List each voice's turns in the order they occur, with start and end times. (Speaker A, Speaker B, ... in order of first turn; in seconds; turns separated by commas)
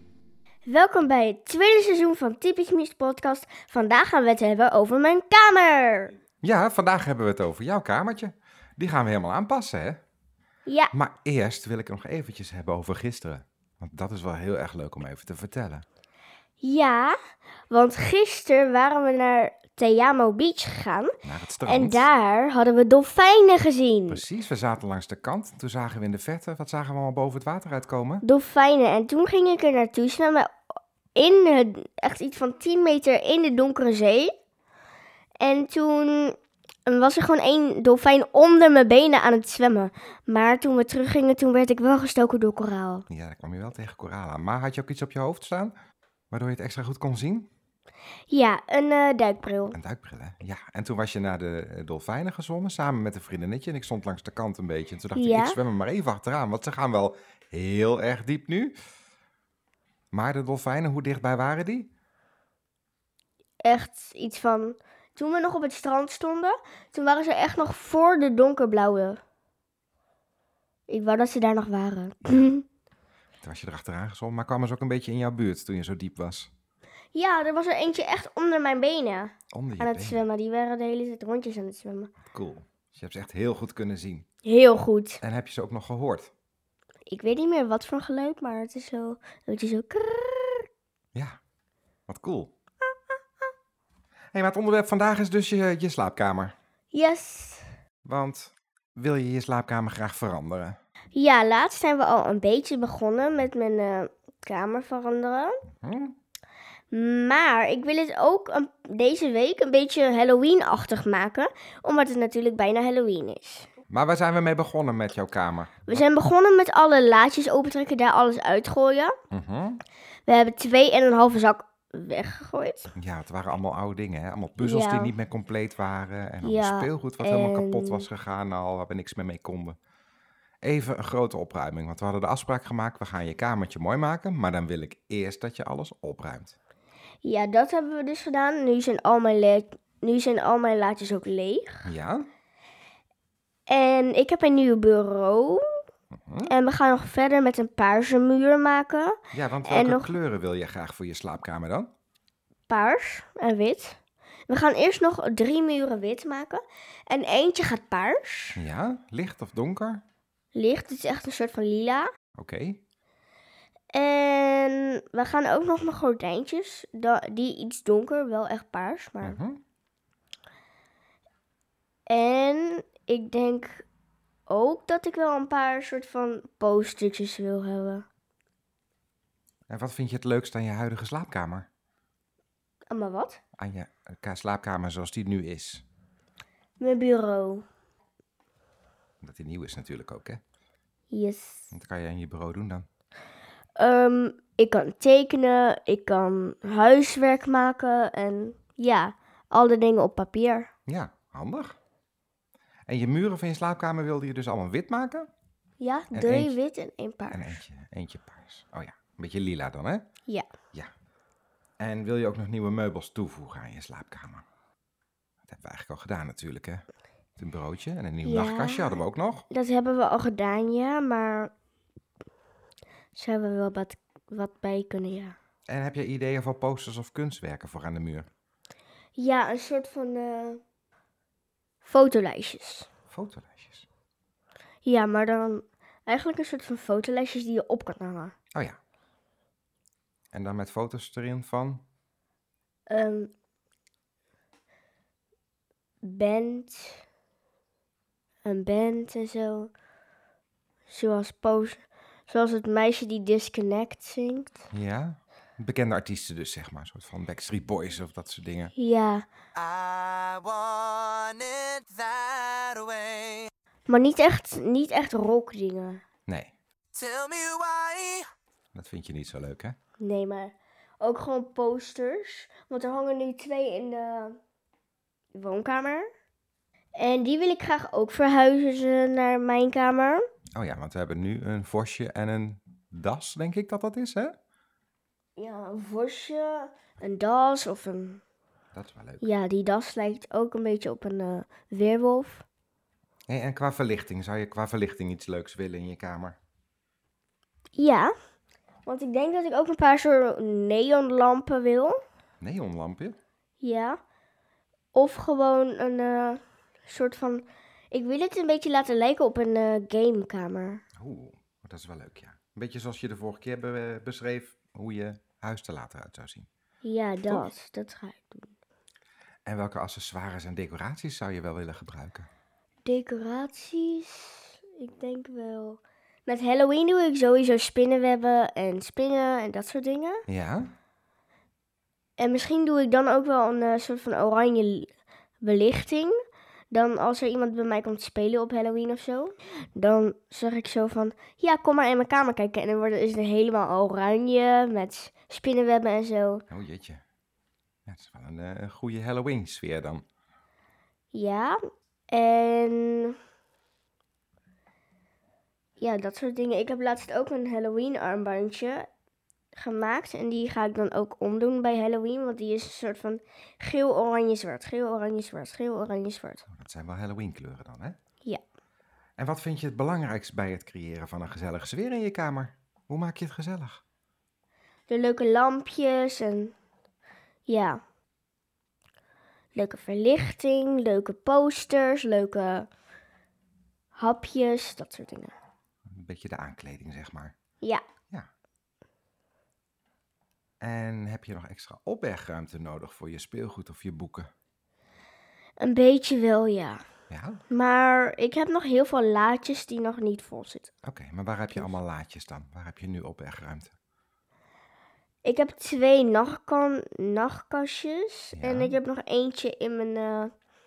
Speaker A: 0.7-6.1, Speaker B: 6.4-10.0, Speaker A: 10.7-10.9, Speaker B: 10.9-15.8, Speaker A: 16.6-17.2, Speaker A: 17.7-24.2, Speaker B: 21.2-22.1, Speaker B: 24.1-28.2, Speaker A: 28.2-30.6, Speaker A: 31.1-34.3, Speaker A: 35.4-43.0, Speaker B: 43.1-45.7, Speaker B: 46.3-47.5, Speaker A: 48.3-49.8, Speaker B: 49.7-58.8, Speaker A: 55.1-55.6, Speaker B: 60.1-61.9, Speaker A: 63.6-69.2, Speaker A: 70.9-72.7, Speaker B: 73.4-76.5, Speaker A: 77.1-82.1, Speaker B: 79.5-80.2, Speaker B: 82.3-84.3, Speaker A: 84.4-85.2, Speaker B: 85.2-86.3, Speaker A: 87.1-90.7, Speaker B: 92.1-92.5, Speaker B: 94.3-96.5, Speaker A: 96.9-97.7, Speaker B: 98.0-100.8, Speaker A: 101.2-105.6, Speaker B: 105.8-106.2, Speaker A: 106.9-113.7, Speaker B: 113.9-116.0, Speaker A: 115.9-119.2, Speaker B: 119.3-119.8, Speaker A: 120.3-122.9, Speaker B: 123.0-129.8, Speaker A: 124.6-125.1, Speaker A: 126.4-128.1, Speaker B: 130.6-136.6, Speaker A: 137.2-141.9, Speaker B: 141.8-142.3, Speaker A: 143.7-145.8, Speaker B: 146.1-146.5, Speaker A: 146.5-150.2, Speaker B: 149.3-151.9, Speaker A: 152.7-158.6, Speaker B: 158.6-160.0, Speaker A: 160.5-162.1, Speaker B: 162.4-162.8, Speaker A: 163.9-169.4, Speaker B: 169.2-169.6, Speaker A: 172.1-173.9, Speaker A: 174.5-178.1, Speaker B: 179.7-181.7, Speaker A: 182.9-183.4, Speaker B: 183.6-185.8, Speaker A: 186.8-187.7, Speaker B: 189.2-190.4, Speaker A: 191.1-191.7, Speaker B: 191.7-192.9, Speaker A: 193.8-200.7, Speaker B: 200.9-201.8, Speaker B: 202.9-205.3, Speaker A: 205.8-207.6, Speaker B: 206.1-206.6, Speaker B: 207.3-210.1, Speaker B: 211.8-214.4, Speaker B: 215.5-216.9, Speaker B: 217.4-219.4, Speaker A: 218.2-221.5, Speaker A: 223.1-225.4, Speaker B: 225.7-228.3, Speaker A: 229.2-230.6, Speaker A: 231.8-232.9, Speaker B: 233.1-233.9, Speaker A: 234.8-238.3, Speaker B: 240.3-241.8, Speaker A: 242.9-243.3, Speaker A: 246.0-247.1, Speaker A: 248.4-249.7, Speaker A: 250.9-254.6, Speaker B: 254.7-258.7, Speaker A: 258.8-259.3, Speaker C: 259.6-263.5, Speaker A: 263.9-266.0, Speaker B: 266.3-266.5, Speaker C: 266.9-268.3, Speaker B: 268.7-269.8, Speaker A: 270.0-274.4, Speaker A: 275.3-276.1, Speaker A: 277.0-280.2, Speaker B: 280.6-284.4, Speaker A: 285.4-288.2, Speaker B: 288.7-289.3, Speaker A: 289.2-292.5, Speaker B: 293.3-296.4, Speaker A: 297.8-298.1, Speaker A: 298.9-302.0, Speaker B: 302.4-303.2, Speaker A: 303.6-304.0, Speaker A: 304.9-310.8, Speaker B: 311.0-316.5, Speaker A: 316.8-318.5, Speaker B: 317.2-317.5, Speaker B: 319.5-322.3, Speaker A: 322.9-330.2, Speaker B: 330.3-330.7, Speaker A: 332.2-334.9, Speaker A: 335.4-336.1, Speaker A: 336.7-346.4, Speaker B: 346.5-347.0, Speaker B: 347.9-350.0, Speaker A: 351.1-351.6, Speaker A: 352.1-353.2, Speaker A: 355.8-358.9, Speaker A: 359.6-366.5, Speaker B: 366.5-368.0, Speaker B: 369.2-373.8, Speaker A: 374.9-376.6, Speaker A: 377.5-377.8, Speaker A: 379.6-382.7, Speaker A: 384.0-385.3, Speaker B: 385.9-387.3, Speaker B: 390.6-394.3, Speaker A: 395.6-396.8, Speaker B: 397.1-397.4, Speaker A: 397.5-400.7, Speaker B: 400.8-403.7, Speaker A: 405.2-410.3, Speaker B: 408.4-408.8